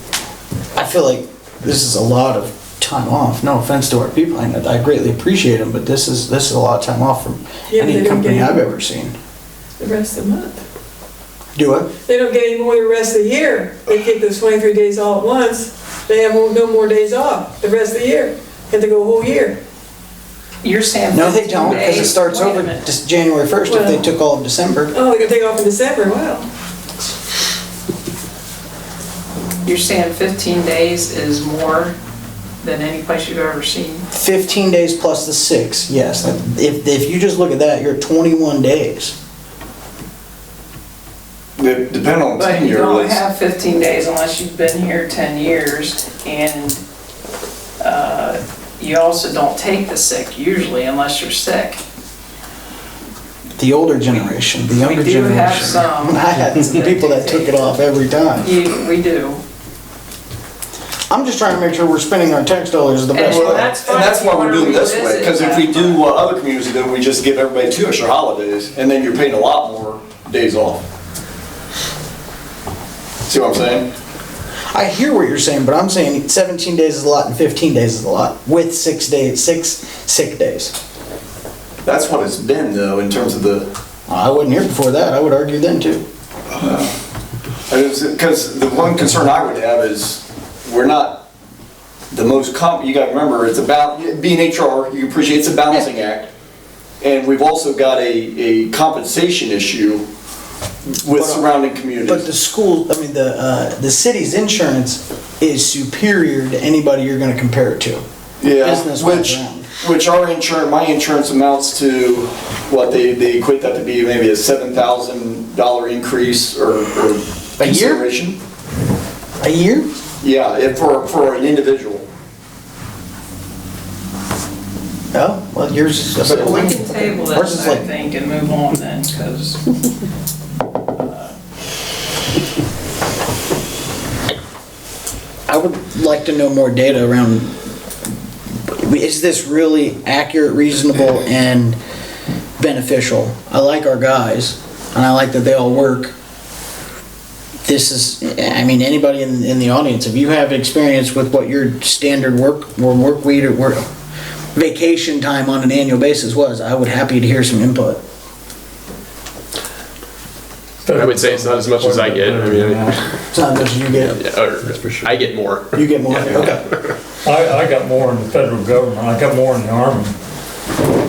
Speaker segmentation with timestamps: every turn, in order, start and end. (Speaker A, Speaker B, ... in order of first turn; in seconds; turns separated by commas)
Speaker A: 0.8-9.1, Speaker B: 7.7-8.6, Speaker B: 9.8-10.6, Speaker A: 11.6-11.9, Speaker B: 12.1-19.6, Speaker C: 20.6-22.8, Speaker A: 21.1-24.9, Speaker B: 23.7-24.0, Speaker B: 24.9-26.5, Speaker C: 29.6-31.9, Speaker C: 32.6-34.0, Speaker A: 34.1-39.2, Speaker D: 41.6-43.2, Speaker C: 42.4-46.8, Speaker C: 47.8-51.8, Speaker A: 53.6-58.5, Speaker C: 54.8-57.6, Speaker C: 58.4-59.4, Speaker A: 61.1-63.7, Speaker C: 63.1-66.0, Speaker D: 63.2-70.9, Speaker D: 73.2-73.9, Speaker A: 74.7-80.7, Speaker D: 81.8-83.7, Speaker A: 84.1-86.0, Speaker D: 86.6-86.9, Speaker D: 87.7-91.2, Speaker D: 92.1-96.3, Speaker D: 97.0-100.1, Speaker D: 100.8-102.2, Speaker A: 101.0-101.4, Speaker A: 102.1-108.0, Speaker D: 108.4-118.4, Speaker A: 108.6-109.7, Speaker A: 117.6-118.0, Speaker A: 119.4-119.9, Speaker D: 120.2-122.0, Speaker A: 125.1-127.8, Speaker C: 126.2-129.6, Speaker C: 131.0-131.3, Speaker A: 135.5-137.5, Speaker A: 138.7-141.8, Speaker A: 142.6-146.1, Speaker A: 147.6-153.8, Speaker A: 154.5-158.0, Speaker E: 160.8-163.1, Speaker F: 160.9-162.9, Speaker A: 163.3-164.3, Speaker F: 164.0-166.6, Speaker A: 165.7-166.7, Speaker E: 167.2-170.2